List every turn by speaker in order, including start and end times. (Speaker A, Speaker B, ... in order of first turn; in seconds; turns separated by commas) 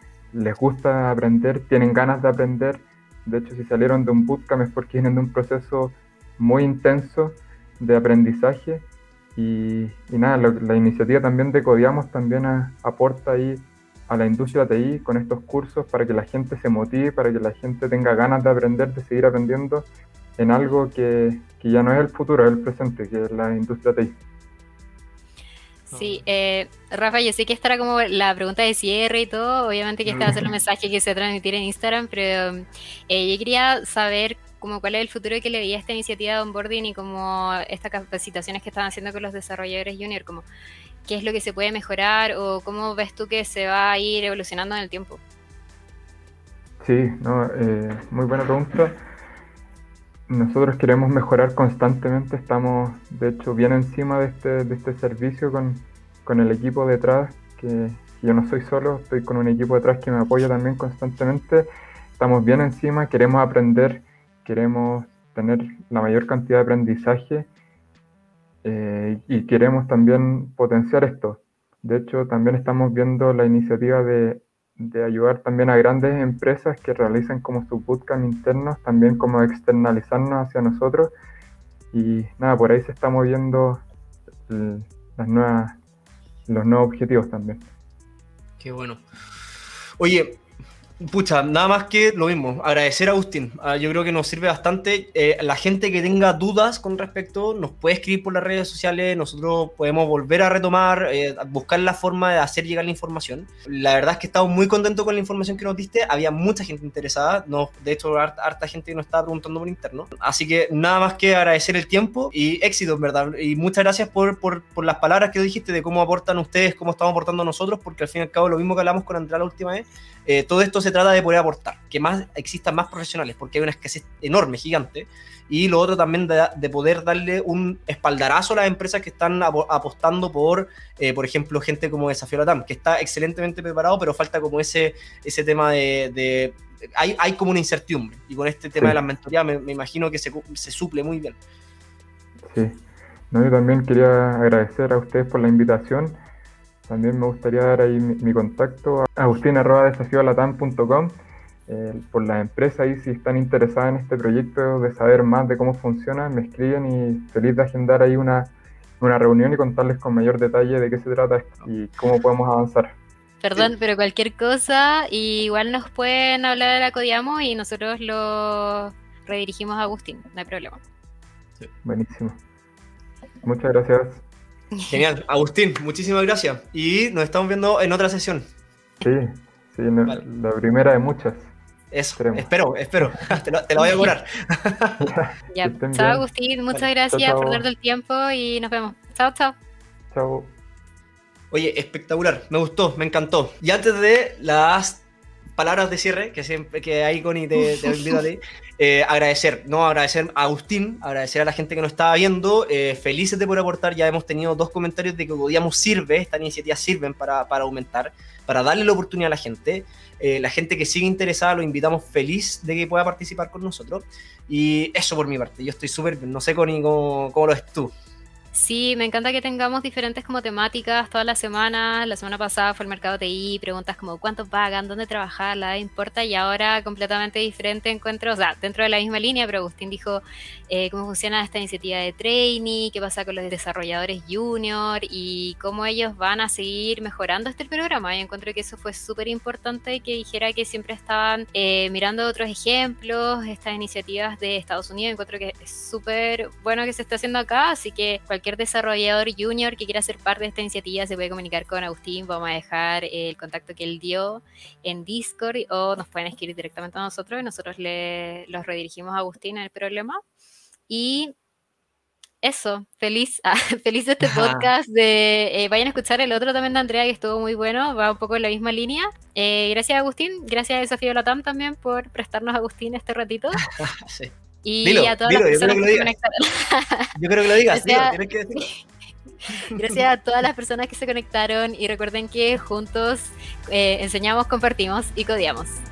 Speaker A: 0.3-24.2, Speaker B: 25.9-40.5, Speaker B: 41.1-45.2, Speaker A: 46.8-49.0, Speaker A: 50.3-67.5, Speaker A: 68.6-81.1, Speaker A: 81.9-83.8, Speaker A: 84.5-85.8, Speaker A: 86.5-87.7, Speaker C: 88.6-89.0, Speaker C: 90.0-90.4, Speaker C: 91.0-141.4, Speaker A: 142.4-146.2, Speaker A: 146.9-163.0, Speaker B: 163.4-170.8, Speaker A: 171.8-172.4, Speaker A: 173.4-174.2, Speaker C: 174.9-178.5, Speaker A: 179.0-181.5, Speaker C: 181.9-185.1, Speaker A: 182.2-182.5, Speaker B: 183.8-184.1, Speaker A: 185.0-187.7, Speaker B: 185.5-189.6, Speaker A: 190.1-190.5, Speaker C: 191.5-195.0, Speaker C: 195.6-217.9, Speaker B: 197.8-198.2, Speaker B: 218.5-260.2, Speaker B: 260.9-261.3, Speaker B: 262.4-273.7, Speaker C: 264.2-264.7, Speaker C: 273.7-276.1, Speaker B: 274.6-277.1, Speaker C: 277.1-278.7, Speaker B: 277.7-278.8, Speaker B: 279.6-285.8, Speaker C: 279.7-280.0